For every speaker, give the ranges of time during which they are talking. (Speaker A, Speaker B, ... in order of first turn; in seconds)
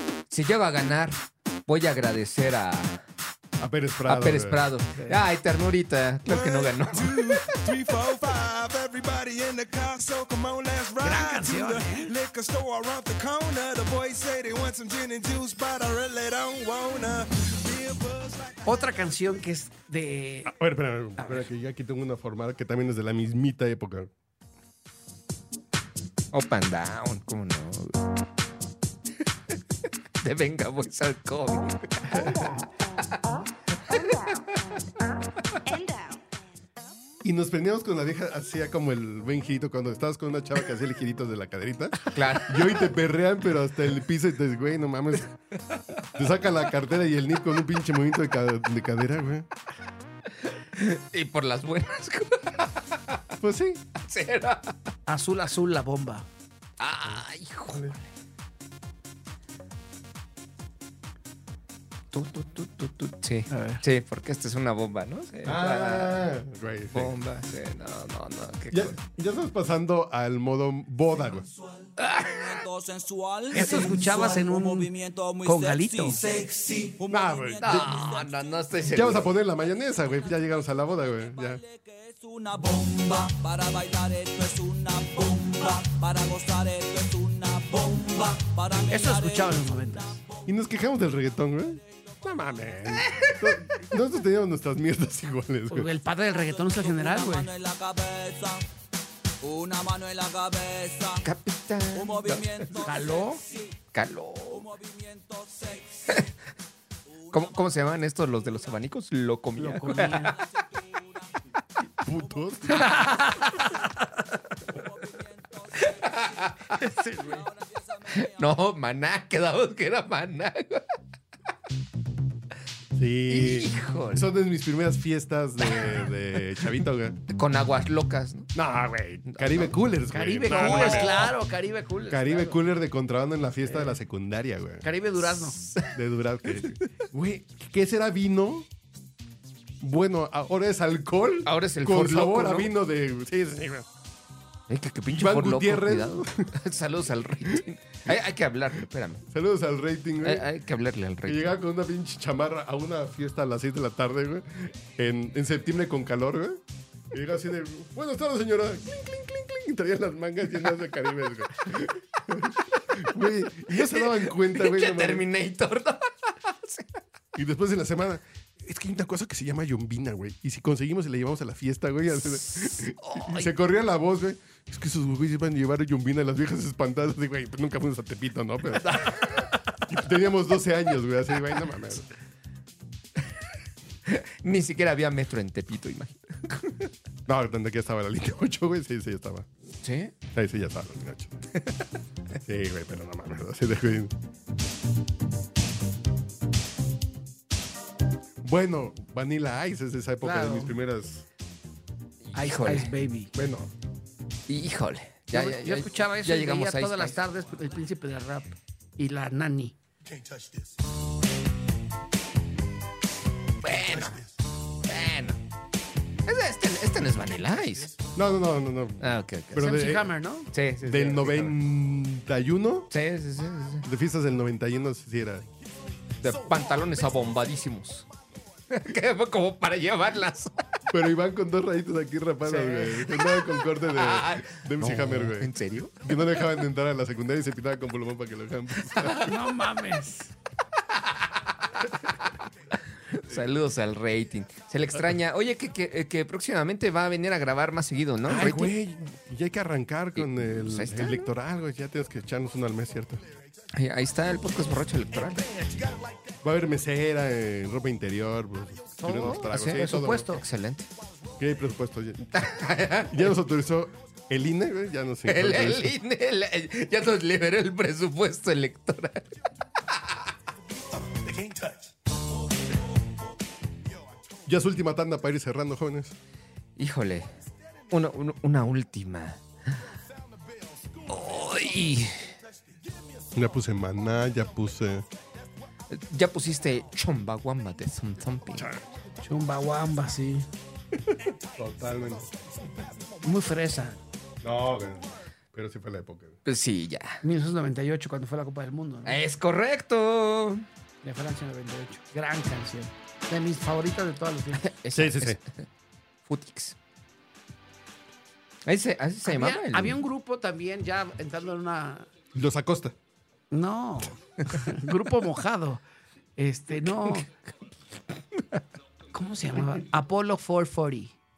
Speaker A: 0.3-3.0, 4.0-7.5, 26.3-28.0, 30.2-32.5, 33.9-34.4, 42.1-42.9, 50.4-53.2, 54.0-54.7, 56.8-58.0, 62.1-66.2, 66.9-69.0, 72.0-72.6, 77.6-79.3, 93.0-93.4, 101.2-102.7, 103.9-104.7, 107.3-110.4, 116.0-116.7, 118.1-120.8, 123.3-124.3, 127.3-128.5, 129.2-129.7, 141.4-142.7, 144.7-149.2, 150.2-151.5, 163.7-167.0, 172.5-173.5, 178.8-179.5, 184.1-186.9, 189.8-190.1, 202.3-202.9, 204.5-207.2, 213.6-214.2, 214.8-215.4, 216.2-217.9, 219.0-219.9, 220.5-221.6, 222.9-223.8, 226.2-228.1, 228.7-230.5, 233.1-236.3, 243.1-248.7, 250.2-251.2, 253.7-255.7, 259.5-260.9, 262.3-263.3, 265.2-269.3, 276.8-277.3, 277.9-279.8, 281.1-282.3, 285.9-288.7, 296.4-297.2, 299.1-300.6, 304.6-305.6, 306.3-306.8, 308.6-310.0
Speaker B: 3.6-4.7, 20.4-24.1, 37.2-45.3, 46.1-49.5, 53.4-53.8, 65.4-67.1, 68.7-71.5, 77.1-77.9, 78.9-81.6, 90.5-95.9, 112.0-112.9, 123.0-127.2, 128.5-131.3, 132.1-134.8, 135.9-138.7, 139.8-143.9, 145.1-146.5, 149.3-150.5, 151.2-156.6, 157.1-165.2, 167.3-179.2, 179.9-182.1, 187.3-189.5, 190.3-191.4, 192.4-194.1, 198.4-201.2, 203.3-203.7, 210.2-210.5, 218.1-220.1, 220.8-222.9, 223.8-225.4, 230.9-239.3, 248.2-253.2, 256.4-260.3, 261.4-262.4, 263.1-265.9, 274.4-276.1, 283.3-285.1, 291.6-292.3, 294.4-296.4, 304.9-305.4, 312.3-312.9
Speaker C: 6.2-18.7
Speaker D: 11.0-12.1, 18.6-20.5, 21.2-21.4, 55.1-56.3, 63.5-63.8, 73.5-74.9, 75.4-76.3, 88.9-90.2, 95.7-97.5, 102.8-103.4, 109.6-110.4, 112.7-113.9, 116.8-117.4, 130.1-132.6, 134.8-135.6, 200.2-200.7, 202.3-203.3, 205.3-209.8, 219.6-220.5, 232.5-232.8, 239.2-240.3, 259.0-260.4, 289.2-290.5, 293.2-294.0, 297.2-299.2, 301.0-304.6, 309.2-312.1, 313.5-315.8, 316.4-317.3, 319.1-321.1
Speaker E: 72.2-78.5, 81.3-90.2, 96.3-98.6, 99.4-101.2, 101.9-103.8, 104.5-106.2, 107.3-107.6, 114.8-116.4, 117.2-118.4